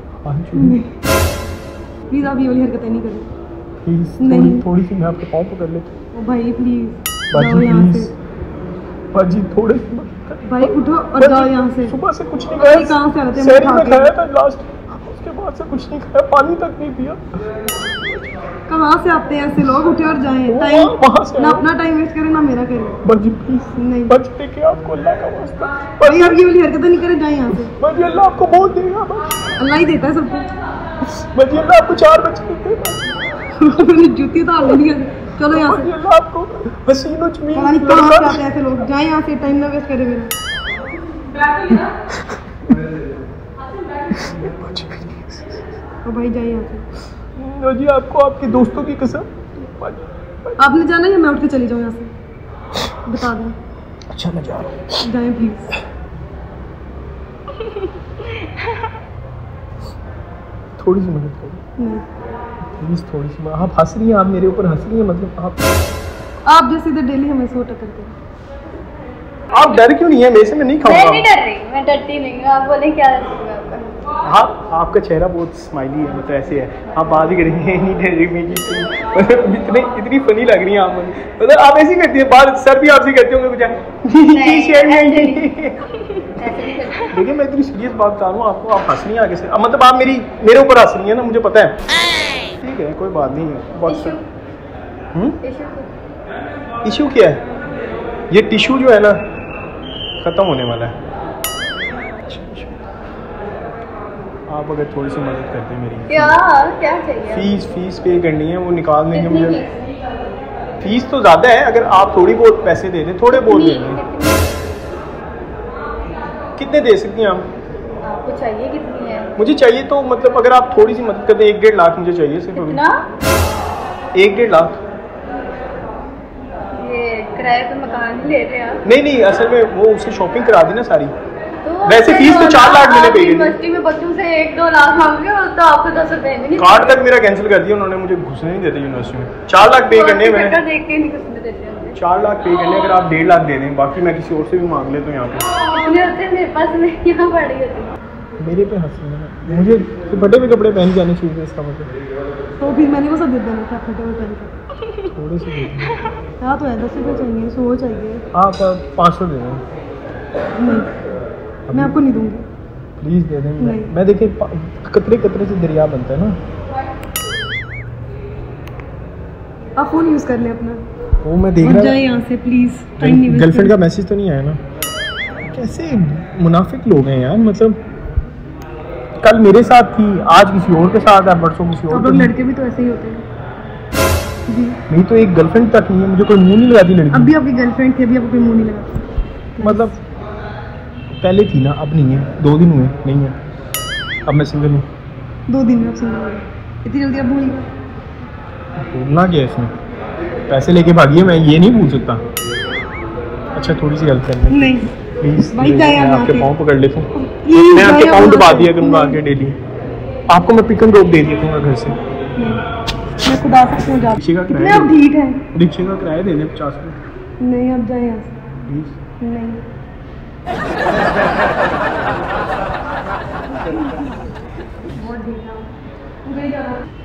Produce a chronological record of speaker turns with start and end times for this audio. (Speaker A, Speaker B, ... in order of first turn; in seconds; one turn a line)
Speaker A: 0.2-0.8
Speaker B: 0.5-0.9
Speaker B: 2.1-3.3
Speaker A: 3.9-5.9
Speaker B: 4.2-4.7
Speaker B: 6.1-8.1
Speaker A: 7.3-8.1
Speaker A: 9.1-17.2
Speaker B: 10.5-12.0
Speaker B: 12.6-14.1
Speaker B: 18.7-23.0
Speaker A: 20.5-21.7
Speaker A: 23.0-26.4
Speaker B: 23.8-24.2
Speaker B: 26.0-27.8
Speaker A: 27.5-29.4
Speaker B: 29.6-30.5
Speaker A: 31.0-33.1
Speaker B: 33.6-35.9
Speaker A: 35.4-38.4
Speaker B: 37.5-40.3
Speaker A: 41.7-42.4
Speaker A: 44.1-45.6
Speaker B: 46.0-46.9
Speaker A: 47.4-50.6
Speaker B: 50.6-52.1
Speaker B: 53.0-53.5
Speaker A: 54.1-55.0
Speaker B: 55.0-55.8
Speaker A: 60.8-61.6
Speaker B: 61.8-62.0
Speaker A: 62.8-65.6
Speaker B: 66.5-68.2
Speaker A: 69.5-71.3
Speaker C: 70.8-73.9
Speaker A: 74.2-85.9
Speaker C: 84.3-85.5
Speaker B: 85.9-86.3
Speaker C: 86.4-87.1
Speaker A: 87.1-91.8
Speaker A: 92.5-94.2
Speaker C: 93.9-94.2
Speaker C: 95.4-95.9
Speaker A: 96.8-97.4
Speaker A: 98.3-99.2
Speaker A: 100.2-101.0
Speaker A: 102.3-102.8
Speaker A: 104.5-106.4
Speaker C: 106.1-107.5
Speaker A: 107.3-109.6
Speaker C: 109.1-109.8
Speaker A: 110.8-114.0
Speaker C: 113.3-114.6
Speaker A: 116.6-117.5
Speaker C: 118.0-119.3
Speaker A: 119.4-122.8
Speaker C: 122.5-123.0
Speaker A: 124.1-124.8
Speaker C: 126.7-128.8
Speaker A: 128.8-131.1
Speaker C: 131.6-137.0
Speaker A: 131.8-133.6
Speaker A: 136.6-140.6
Speaker C: 139.7-142.0
Speaker A: 142.0-145.5
Speaker C: 145.7-147.9
Speaker A: 148.4-151.9
Speaker B: 152.6-155.1
Speaker A: 155.1-156.1
Speaker B: 155.8-158.2
Speaker A: 158.3-159.6
Speaker B: 160.6-160.9
Speaker A: 161.7-162.0
Speaker B: 161.7-162.5
Speaker A: 163.0-166.4
Speaker B: 163.6-163.9
Speaker B: 169.8-170.8
Speaker A: 171.2-172.0
Speaker B: 171.6-173.8
Speaker A: 173.0-174.6
Speaker A: 175.4-177.8
Speaker A: 179.2-182.3
Speaker B: 181.9-183.2
Speaker B: 184.5-184.8
Speaker A: 184.9-187.4
Speaker B: 187.1-190.0
Speaker A: 189.6-190.0
Speaker A: 191.2-193.4
Speaker A: 194.3-194.8
Speaker B: 195.5-197.7
Speaker A: 198.8-199.7
Speaker A: 200.5-202.2
Speaker A: 203.5-209.6
Speaker B: 204.5-204.9
Speaker B: 205.5-206.5
Speaker B: 207.2-209.2
Speaker A: 210.3-212.0
Speaker B: 212.4-212.6
Speaker B: 213.2-215.5
Speaker A: 214.2-214.9
Speaker A: 215.5-217.0
Speaker B: 217.4-218.4
Speaker A: 218.6-219.0
Speaker B: 219.2-219.6
Speaker B: 223.6-223.9
Speaker B: 224.8-225.7
Speaker B: 226.2-226.8